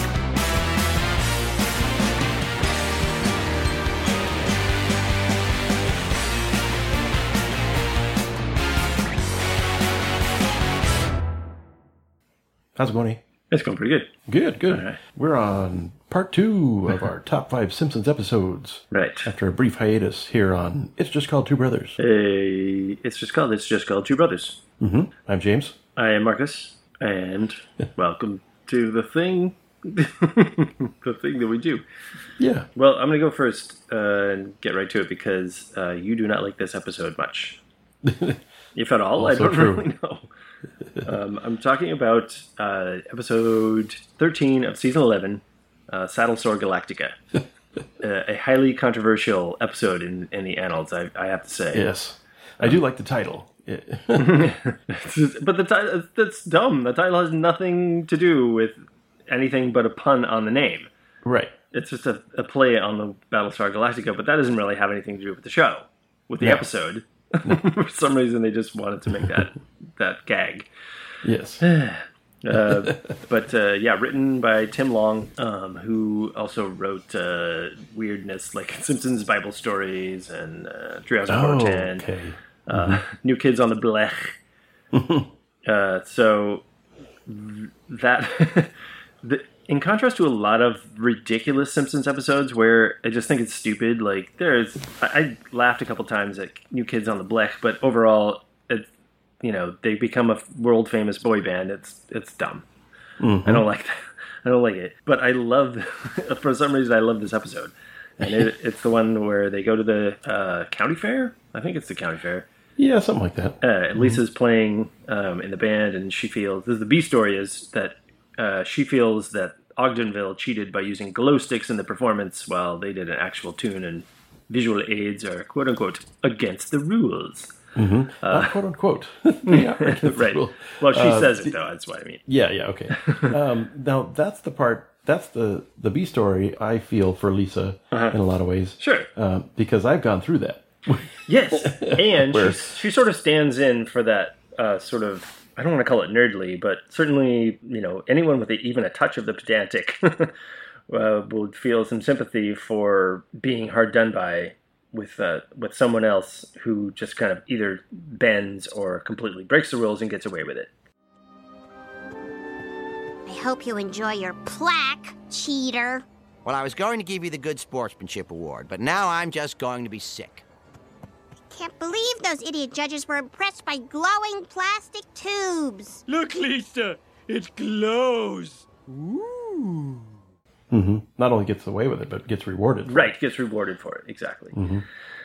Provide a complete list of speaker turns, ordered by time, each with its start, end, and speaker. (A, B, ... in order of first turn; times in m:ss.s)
0:12.8-0:13.2 A
0:13.5-0:14.1 B
0:14.3-0:22.0 A
0:14.7-0:15.0 B
0:18.9-0:19.3 B
0:22.0-0:24.6 B
0:24.8-0:25.7 A
0:26.0-0:31.8 B
0:32.4-0:32.7 A
0:32.7-0:37.6 B
0:38.0-0:38.4 A
0:38.7-0:40.3 B
0:39.2-0:39.8 A
0:41.0-0:47.2 B
0:48.0-0:51.9 B
0:51.7-0:54.4 A
0:54.2-1:00.9 B
1:01.2-1:01.5 A
1:01.7-1:10.7 B
1:06.4-1:06.6 A
1:11.2-1:11.6 A
1:11.6-1:22.0 B
1:12.5-1:13.2 A
1:21.3-1:23.0 A
1:22.7-1:24.4 B
1:24.9-1:25.3 A
1:25.6-1:26.6 B
1:27.3-1:28.7 B
1:29.2-1:38.9 B
1:39.4-1:42.6 B
1:43.2-1:43.6 A
1:43.4-1:52.4 B
1:48.2-1:48.5 A
1:52.8-1:54.2 A
1:53.6-2:07.6 B
2:07.7-2:11.5 A
2:08.2-2:08.6 B
2:09.5-2:12.2 B
2:12.2-2:22.8 A
2:12.9-2:13.3 B
2:17.9-2:18.2 B
2:18.8-2:19.1 B
2:21.3-2:30.3 B
2:30.9-2:40.7 B
2:43.3-2:46.0 C
2:46.4-2:50.4 D
2:51.5-2:56.0 C
2:56.1-3:00.1 E
3:00.7-3:03.1 A
3:02.8-3:04.6 B
3:04.5-3:04.8 A